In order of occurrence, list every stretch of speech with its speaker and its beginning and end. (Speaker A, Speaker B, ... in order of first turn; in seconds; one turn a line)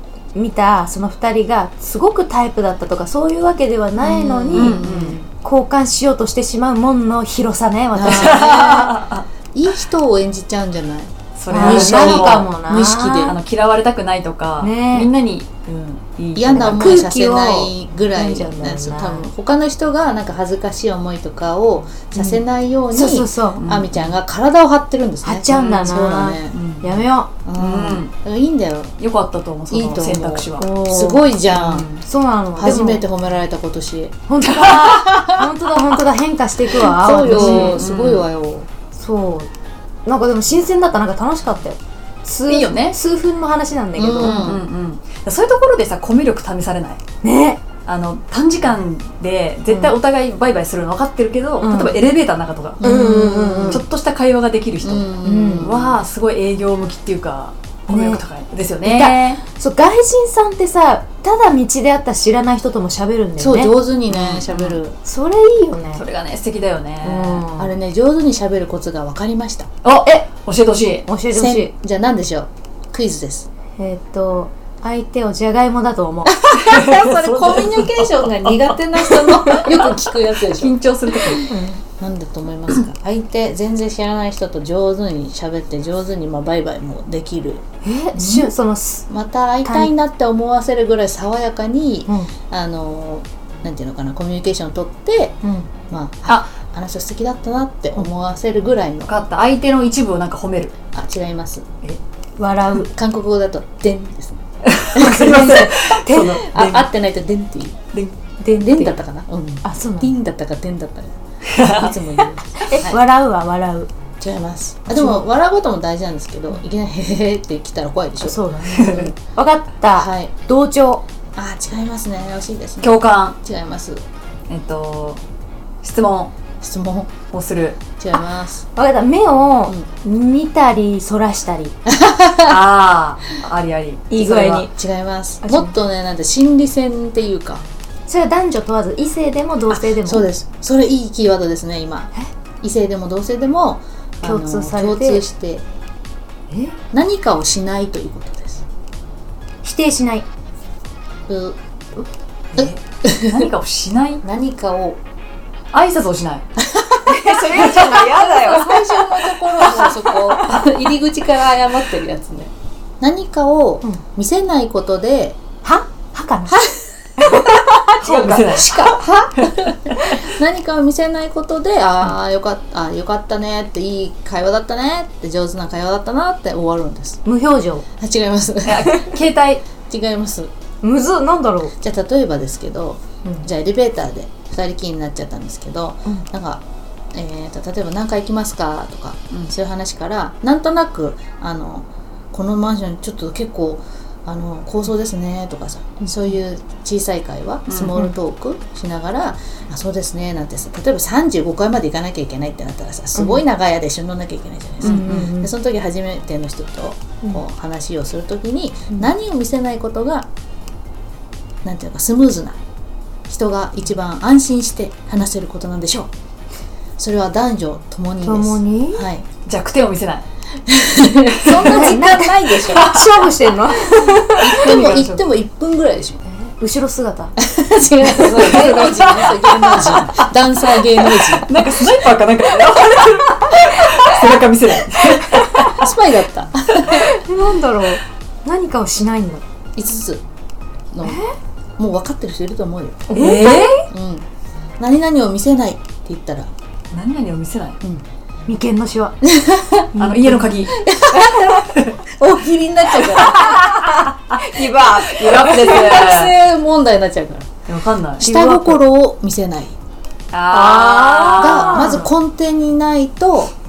Speaker A: 0.3-4.8
Speaker B: 4.1-5.2
Speaker C: 4.1-5.3
Speaker A: 5.3-8.9
Speaker C: 8.0-8.6
Speaker B: 8.0-9.3
Speaker C: 9.5-13.4
Speaker B: 11.4-12.5
Speaker A: 11.5-13.3
Speaker B: 13.2-17.0
Speaker A: 14.6-15.1
Speaker C: 16.4-26.6
Speaker A: 16.7-19.3
Speaker A: 22.2-23.7
Speaker B: 23.6-24.1
Speaker A: 25.2-27.3
Speaker B: 25.5-25.9
Speaker B: 26.5-28.1
Speaker C: 27.4-28.9
Speaker B: 29.0-30.7
Speaker C: 29.7-31.9
Speaker A: 30.6-31.3
Speaker B: 31.5-32.0
Speaker A: 32.0-33.0
Speaker C: 32.6-35.4
Speaker A: 34.3-37.8
Speaker C: 36.7-38.7
Speaker B: 37.2-38.3
Speaker A: 38.9-39.5
Speaker A: 40.1-44.5
Speaker B: 42.5-43.0
Speaker C: 44.0-44.6
Speaker B: 44.2-47.0
Speaker A: 47.2-47.6
Speaker B: 47.9-52.8
Speaker A: 49.7-49.9
Speaker A: 51.6-52.0
Speaker C: 52.8-53.8
Speaker A: 52.8-53.8
Speaker B: 53.7-59.4
Speaker C: 54.8-56.0
Speaker A: 55.2-55.8
Speaker A: 57.9-58.2
Speaker A: 58.8-63.7
Speaker C: 63.4-65.0
Speaker B: 64.1-64.8
Speaker A: 65.0-66.0
Speaker B: 65.9-67.5
Speaker A: 67.0-67.7
Speaker C: 67.6-69.7
Speaker B: 69.8-71.1
Speaker A: 71.1-71.7
Speaker C: 71.3-73.5
Speaker A: 73.8-76.4
Speaker C: 76.3-88.5
Speaker B: 76.5-81.5
Speaker A: 81.5-81.8
Speaker A: 87.8-89.1
Speaker C: 89.1-95.4
Speaker A: 89.7-89.9
Speaker A: 92.1-92.3
Speaker A: 95.4-95.7
Speaker C: 95.9-99.1
Speaker B: 99.0-100.7
Speaker C: 100.9-101.7
Speaker A: 102.4-102.9
Speaker C: 102.8-104.4
Speaker B: 104.6-106.9
Speaker C: 104.9-107.8
Speaker A: 105.0-106.5
Speaker A: 108.4-109.0
Speaker C: 108.6-113.0
Speaker A: 109.6-110.1
Speaker B: 111.5-112.3
Speaker A: 112.7-113.9
Speaker C: 114.2-119.0
Speaker A: 114.9-115.2
Speaker A: 118.2-121.0
Speaker B: 118.7-119.1
Speaker C: 120.0-120.3
Speaker C: 121.4-124.0
Speaker B: 122.8-123.4
Speaker B: 124.5-125.2
Speaker B: 125.8-126.3
Speaker C: 126.6-127.2
Speaker B: 127.3-127.8
Speaker C: 128.0-128.7
Speaker A: 128.8-131.8
Speaker C: 131.9-132.6
Speaker B: 132.5-134.7
Speaker A: 134.1-134.7
Speaker C: 134.7-137.6
Speaker A: 135.4-135.7
Speaker A: 138.1-140.3
Speaker C: 139.7-145.7
Speaker A: 144.2-145.2
Speaker A: 146.5-146.8
Speaker C: 146.9-148.7
Speaker A: 149.6-150.3
Speaker C: 151.3-151.6
Speaker C: 152.6-153.5
Speaker B: 153.2-154.2
Speaker C: 154.2-155.0
Speaker B: 155.7-156.5
Speaker C: 156.6-165.4
Speaker A: 157.1-159.1
Speaker B: 157.4-158.2
Speaker B: 159.6-160.7
Speaker A: 165.6-168.8
Speaker B: 168.0-170.2
Speaker C: 168.4-177.2
Speaker A: 177.3-177.8
Speaker C: 178.0-179.2
Speaker B: 178.7-179.6
Speaker C: 179.9-180.5
Speaker A: 180.8-181.7
Speaker C: 181.8-210.3
Speaker B: 197.7-198.0
Speaker A: 203.2-203.4
Speaker B: 204.8-205.3
Speaker A: 204.8-205.5
Speaker C: 211.6-212.6
Speaker C: 213.3-216.1
Speaker C: 217.0-219.3
Speaker A: 218.2-219.1
Speaker B: 219.5-220.3
Speaker C: 220.7-223.0
Speaker B: 221.4-222.0
Speaker A: 221.4-224.9
Speaker B: 222.5-223.2
Speaker C: 224.3-226.2
Speaker B: 224.6-225.2
Speaker A: 226.5-227.4
Speaker C: 227.4-231.6
Speaker A: 228.1-229.3
Speaker B: 228.4-235.8
Speaker A: 235.3-235.7
Speaker C: 235.6-237.2
Speaker A: 236.9-239.4
Speaker C: 239.8-240.2
Speaker C: 240.9-241.2
Speaker A: 241.0-241.3
Speaker C: 241.8-243.3
Speaker A: 243.1-243.9
Speaker B: 243.2-243.9
Speaker C: 243.9-244.3
Speaker C: 244.8-246.5
Speaker B: 246.9-247.8
Speaker A: 248.5-249.2
Speaker C: 249.2-249.9
Speaker A: 249.9-251.5
Speaker B: 250.0-250.8
Speaker C: 250.7-253.7
Speaker B: 251.7-252.0
Speaker A: 252.9-256.0
Speaker B: 253.4-256.4
Speaker C: 254.9-257.5
Speaker B: 257.7-258.2
Speaker C: 258.2-259.8
Speaker A: 258.2-258.8
Speaker B: 260.3-262.1
Speaker A: 260.5-262.1
Speaker C: 261.4-263.5